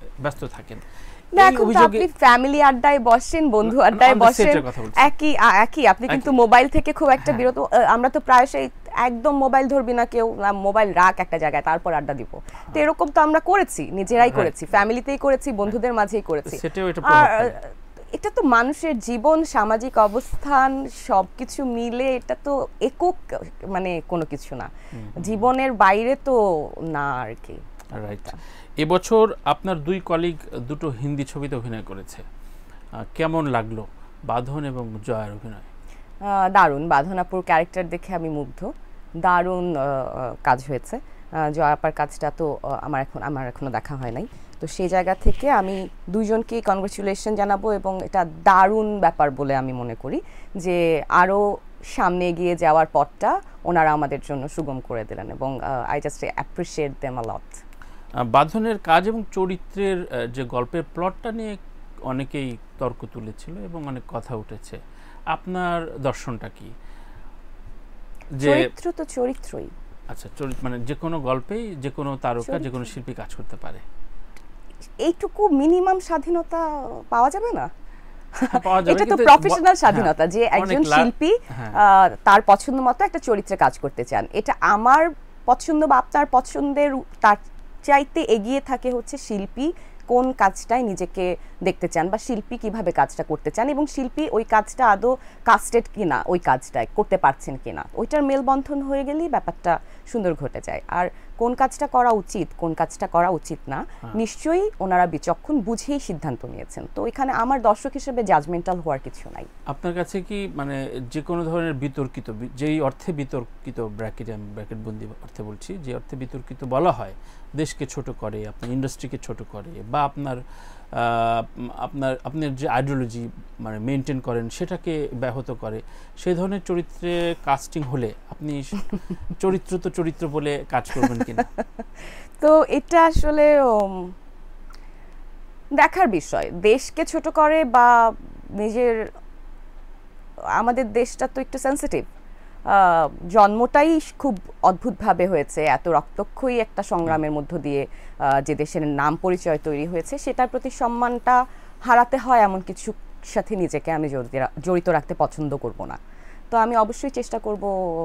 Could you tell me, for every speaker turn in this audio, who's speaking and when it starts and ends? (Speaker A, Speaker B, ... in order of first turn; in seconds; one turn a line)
Speaker A: 0.2-2.1
Speaker B: 1.3-27.6
Speaker A: 3.6-5.1
Speaker A: 6.1-6.4
Speaker A: 7.2-7.5
Speaker A: 14.2-14.8
Speaker A: 16.4-17.5
Speaker A: 24.9-25.5
Speaker A: 27.9-32.2
Speaker A: 33.0-35.7
Speaker B: 36.2-38.7
Speaker B: 39.2-57.6
Speaker A: 58.2-61.6
Speaker A: 62.1-64.8
Speaker A: 65.3-66.7
Speaker A: 68.4-68.7
Speaker B: 68.4-69.7
Speaker A: 70.1-73.8
Speaker B: 72.5-72.7
Speaker B: 75.0-77.7
Speaker B: 78.3-109.5
Speaker A: 78.5-81.8
Speaker A: 109.7-131.5
Speaker B: 132.4-134.1
Speaker B: 135.8-139.1
Speaker B: 140.6-142.0
Speaker B: 142.7-156.0
Speaker B: 156.5-157.7